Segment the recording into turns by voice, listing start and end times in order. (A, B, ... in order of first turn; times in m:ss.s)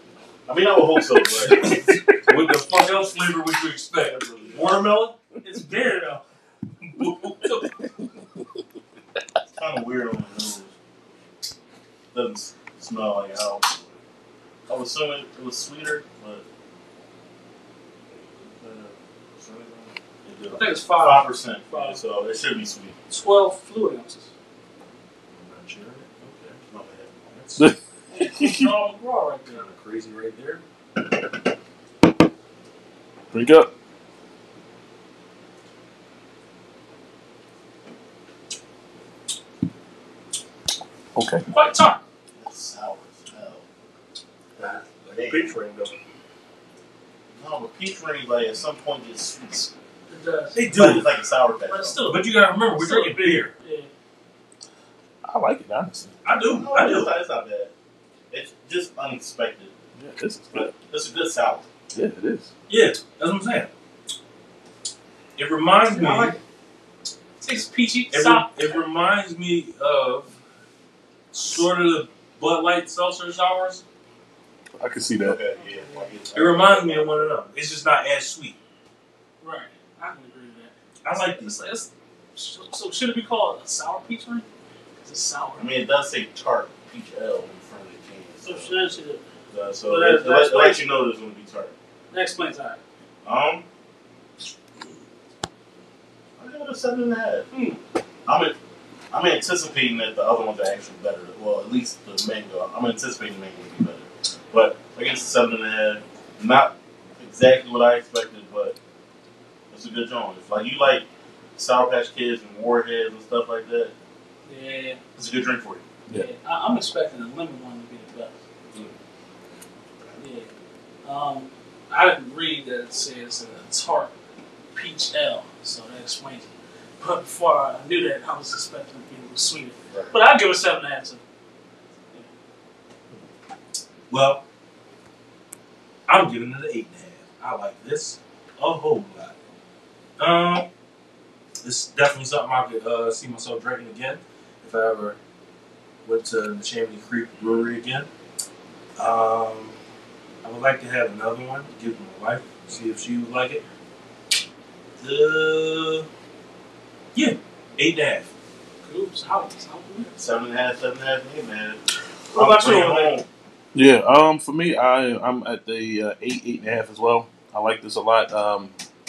0:00.4-0:01.8 A
0:01.4-0:05.3 B
0:04.0-0:04.8 A
0:05.3-0:06.2 C
0:06.8-0:07.7 B
0:07.4-0:08.0 D
0:09.5-0:10.7 A
0:12.1-0:13.7 A
0:14.7-0:16.4 A
0:18.5-0:19.9 B
0:20.2-0:22.9 A
0:20.5-0:22.0 C
0:23.1-0:24.3 C
0:25.3-0:26.6 B
0:26.7-0:27.2 A
0:27.3-0:27.7 B
0:27.6-0:28.7 D
0:28.1-0:29.6 C
0:29.5-0:30.6 B
0:33.3-0:33.7 D
0:41.1-0:41.4 D
0:41.5-0:42.0 C
0:42.3-0:43.6 A
0:44.5-0:45.6 A
0:44.6-0:45.9 B
0:47.4-0:49.7 A
0:50.1-0:50.6 C
0:50.5-0:51.1 B
0:50.7-0:52.0 A
0:51.6-0:53.9 C
0:52.0-0:53.5 B
0:55.2-0:56.2 D
0:56.2-0:57.1 B
0:56.4-0:57.7 A
0:58.3-0:59.7 A
1:00.0-1:00.7 D
1:00.5-1:01.7 A
1:01.9-1:02.5 D
1:02.7-1:03.7 B
1:05.4-1:06.4 B
1:05.9-1:06.4 C
1:07.4-1:08.8 C
1:08.1-1:10.3 B
1:11.3-1:13.8 B
1:14.8-1:15.4 D
1:15.2-1:17.3 A
1:15.6-1:16.2 C
1:16.3-1:18.6 B
1:19.4-1:24.4 C
1:21.0-1:21.8 B
1:25.0-1:25.7 C
1:25.6-1:28.8 A
1:28.4-1:29.2 C
1:29.5-1:31.7 A
1:29.8-1:30.8 C
1:32.1-1:32.8 C
1:33.2-1:33.6 A
1:36.4-1:37.5 A
1:37.5-1:37.8 C
1:38.2-1:38.6 A
1:39.1-1:48.8 A
1:49.7-1:53.9 A
1:54.4-1:55.0 C
1:55.2-1:55.8 A
1:56.1-1:58.3 C
2:00.2-2:00.5 C
2:01.0-2:04.1 C
2:04.7-2:06.5 C
2:07.0-2:11.2 C
2:14.1-2:14.4 B
2:16.1-2:19.3 B
2:20.2-2:20.7 B
2:21.6-2:25.2 B
2:26.0-2:28.1 B
2:29.0-2:29.8 B
2:30.4-2:33.6 B
2:35.0-2:36.1 B
2:37.1-2:38.3 B
2:38.8-2:40.1 C
2:40.2-2:41.8 A
2:42.3-2:43.1 C
2:42.3-2:43.3 A
2:43.7-2:48.7 D